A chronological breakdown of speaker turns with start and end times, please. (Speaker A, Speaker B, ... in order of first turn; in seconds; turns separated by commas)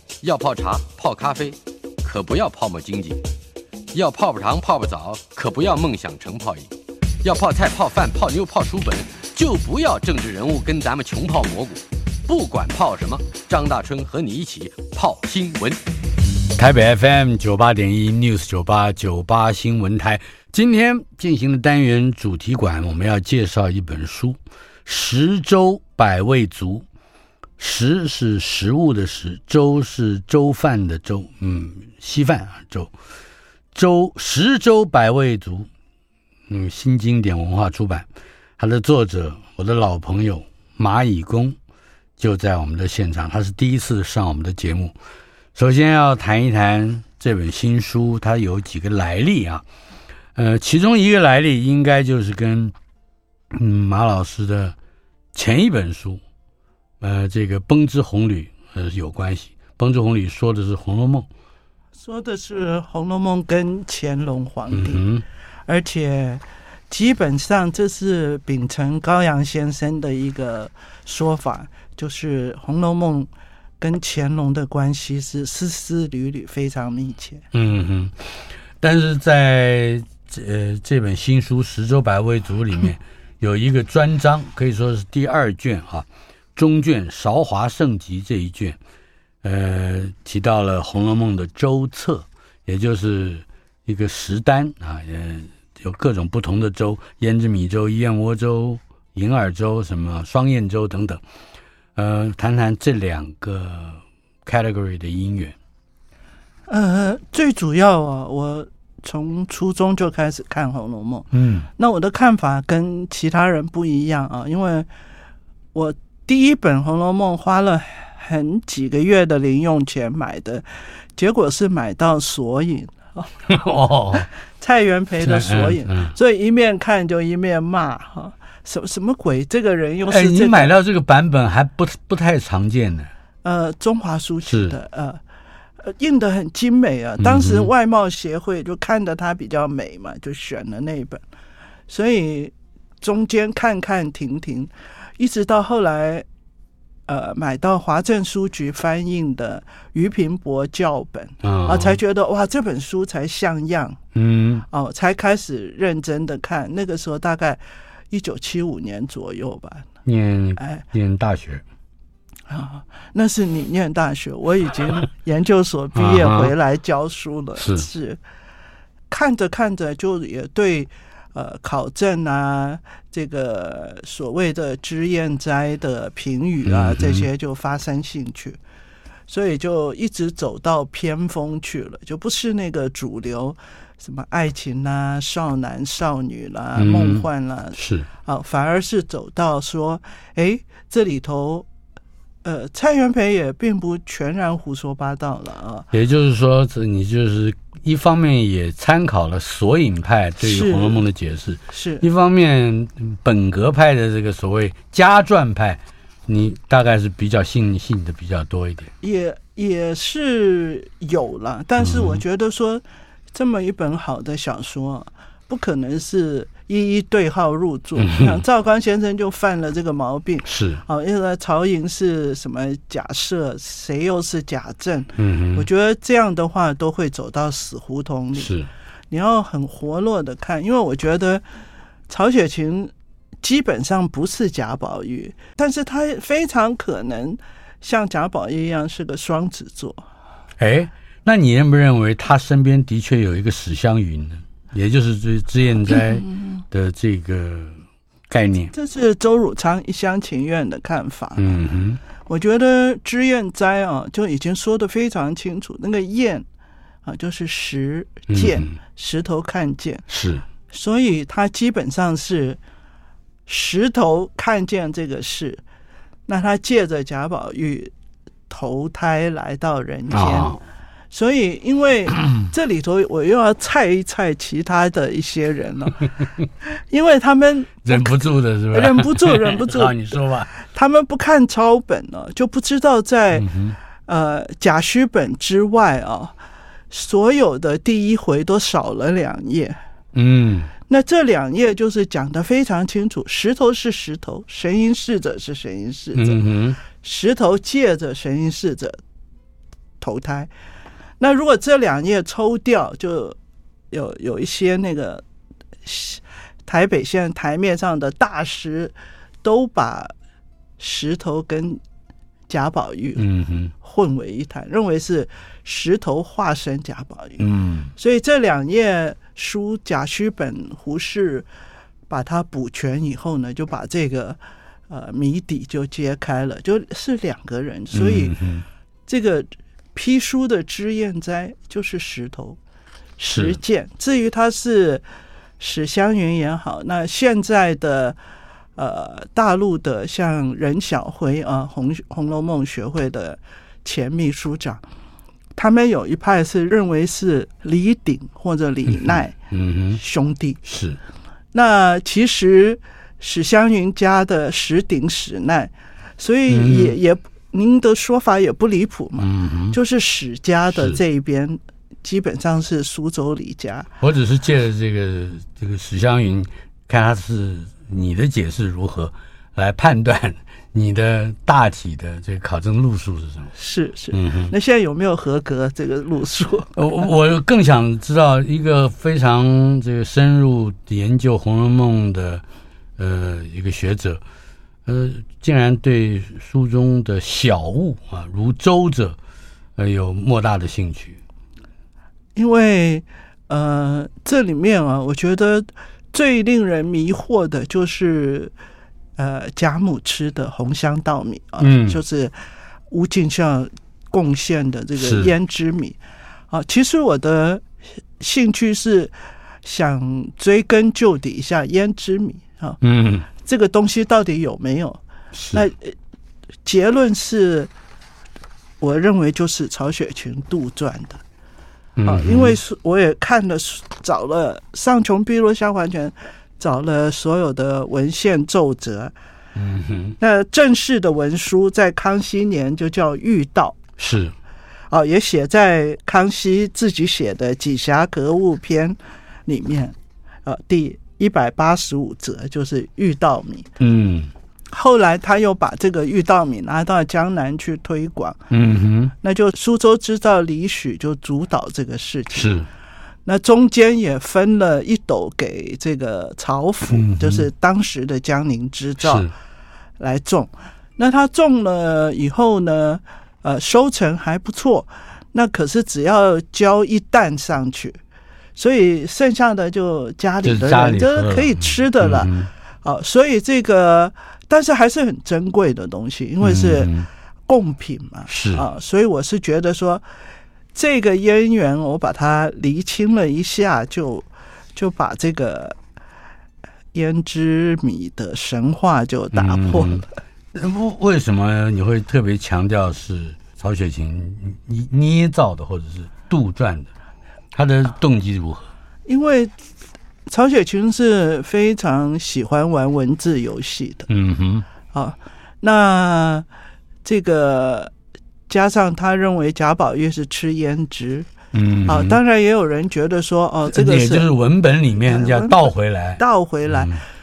Speaker A: 0.2-3.2, Speaker A: 3.9-6.7, Speaker A: 7.2-15.8, Speaker B: 16.5-26.8, Speaker B: 27.6-32.9, Speaker B: 33.7-35.7, Speaker B: 36.5-38.1, Speaker B: 38.6-41.5, Speaker B: 42.2-44.9, Speaker B: 45.5-49.6, Speaker B: 50.3-52.7, Speaker B: 53.5-54.8, Speaker B: 55.3-56.2, Speaker B: 57.0-61.3, Speaker C: 62.0-65.0, Speaker B: 64.7-65.2, Speaker C: 65.7-73.3, Speaker C: 73.8-77.4, Speaker B: 77.5-88.8, Speaker B: 89.4-101.2, Speaker B: 102.0-105.5, Speaker C: 106.7-114.9, Speaker B: 111.3-111.7, Speaker C: 115.7-123.3, Speaker B: 123.5-124.3, Speaker C: 124.2-130.7, Speaker B: 125.2-126.1, Speaker B: 130.1-133.1, Speaker C: 133.4-135.2, Speaker B: 134.4-134.7, Speaker C: 135.8-141.2, Speaker B: 137.2-137.7, Speaker C: 141.9-146.2, Speaker C: 147.1-154.0, Speaker B: 151.4-152.0, Speaker B: 154.1-154.6, Speaker C: 154.7-157.6, Speaker C: 158.1-159.9, Speaker B: 160.0-161.6, Speaker C: 160.6-160.8, Speaker C: 162.5-168.2, Speaker B: 165.9-166.5, Speaker B: 167.6-167.9, Speaker C: 169.1-178.6, Speaker B: 176.6-177.2, Speaker C: 179.3-191.7, Speaker B: 186.8-188.1, Speaker C: 192.4-195.9, Speaker B: 195.9-208.9, Speaker C: 200.4-201.1, Speaker C: 201.7-202.1, Speaker C: 209.0-228.5, Speaker B: 211.8-212.2, Speaker B: 218.0-218.4, Speaker B: 220.4-220.8, Speaker B: 225.2-225.7, Speaker B: 228.3-228.7, Speaker C: 229.1-231.4, Speaker C: 232.1-240.0, Speaker B: 240.6-247.8, Speaker C: 245.9-246.6, Speaker B: 248.3-248.7, Speaker C: 248.7-251.5, Speaker B: 251.4-252.0, Speaker C: 252.2-256.4, Speaker C: 257.0-260.0, Speaker B: 258.3-258.8, Speaker B: 260.1-260.4, Speaker C: 260.7-262.6, Speaker C: 263.5-265.6, Speaker C: 266.3-267.9, Speaker C: 268.5-270.6, Speaker B: 270.1-270.6, Speaker C: 271.1-276.1, Speaker C: 276.6-278.2, Speaker B: 277.8-280.5, Speaker C: 278.7-283.5, Speaker B: 283.3-283.8, Speaker C: 284.1-286.3, Speaker C: 286.9-289.8, Speaker B: 290.1-290.7, Speaker C: 290.9-299.0, Speaker B: 296.1-296.8, Speaker C: 300.0-300.5, Speaker C: 301.2-303.4, Speaker C: 303.9-305.2, Speaker C: 305.8-310.1, Speaker C: 310.8-311.8, Speaker C: 312.5-313.2, Speaker B: 313.1-313.7, Speaker C: 313.8-317.4, Speaker B: 317.4-317.9, Speaker C: 317.9-321.4, Speaker C: 322.1-324.4, Speaker C: 324.9-328.4, Speaker B: 327.9-328.6, Speaker C: 329.1-332.6, Speaker B: 333.2-333.6, Speaker C: 333.2-335.0, Speaker C: 335.6-338.2, Speaker C: 338.8-344.8, Speaker C: 345.6-349.3, Speaker B: 348.9-350.0, Speaker C: 349.9-350.6, Speaker B: 350.6-351.0, Speaker C: 351.5-363.9, Speaker B: 356.5-356.9, Speaker B: 359.2-359.8, Speaker B: 360.7-361.0, Speaker B: 364.0-373.5, Speaker C: 373.5-376.8, Speaker B: 374.1-374.5, Speaker B: 376.8-382.4, Speaker B: 383.0-384.2, Speaker B: 384.9-389.2, Speaker B: 389.8-391.2, Speaker C: 392.3-398.5, Speaker C: 399.2-402.3, Speaker B: 401.6-402.0, Speaker C: 402.9-406.0, Speaker B: 405.0-405.3, Speaker C: 406.5-407.6, Speaker C: 408.2-409.1, Speaker C: 409.6-412.8, Speaker B: 412.8-413.3, Speaker C: 413.3-415.0, Speaker B: 415.3-415.6, Speaker C: 415.5-415.9, Speaker C: 416.6-417.7, Speaker C: 418.8-421.2, Speaker B: 422.0-422.6, Speaker C: 422.1-429.1, Speaker B: 429.5-430.1, Speaker C: 430.2-433.8, Speaker B: 434.0-434.3, Speaker C: 434.9-443.7, Speaker B: 443.8-444.3, Speaker C: 444.7-448.4, Speaker B: 448.5-449.1, Speaker C: 449.2-452.6, Speaker B: 452.3-452.7, Speaker C: 453.2-459.3, Speaker B: 456.9-457.5, Speaker B: 459.0-459.3, Speaker C: 460.0-468.0, Speaker C: 468.6-472.3, Speaker B: 470.4-472.5, Speaker C: 472.8-476.9, Speaker B: 476.4-477.1, Speaker C: 477.5-480.0, Speaker B: 478.3-478.6, Speaker C: 480.7-485.8, Speaker C: 486.9-490.1, Speaker B: 489.3-496.9, Speaker B: 497.5-498.7, Speaker C: 499.1-499.5, Speaker C: 500.3-504.1, Speaker B: 504.1-504.6, Speaker C: 504.9-506.4, Speaker C: 507.0-507.9, Speaker C: 508.5-511.3, Speaker B: 511.5-512.2, Speaker C: 511.9-514.3, Speaker B: 513.7-517.0, Speaker C: 515.0-516.9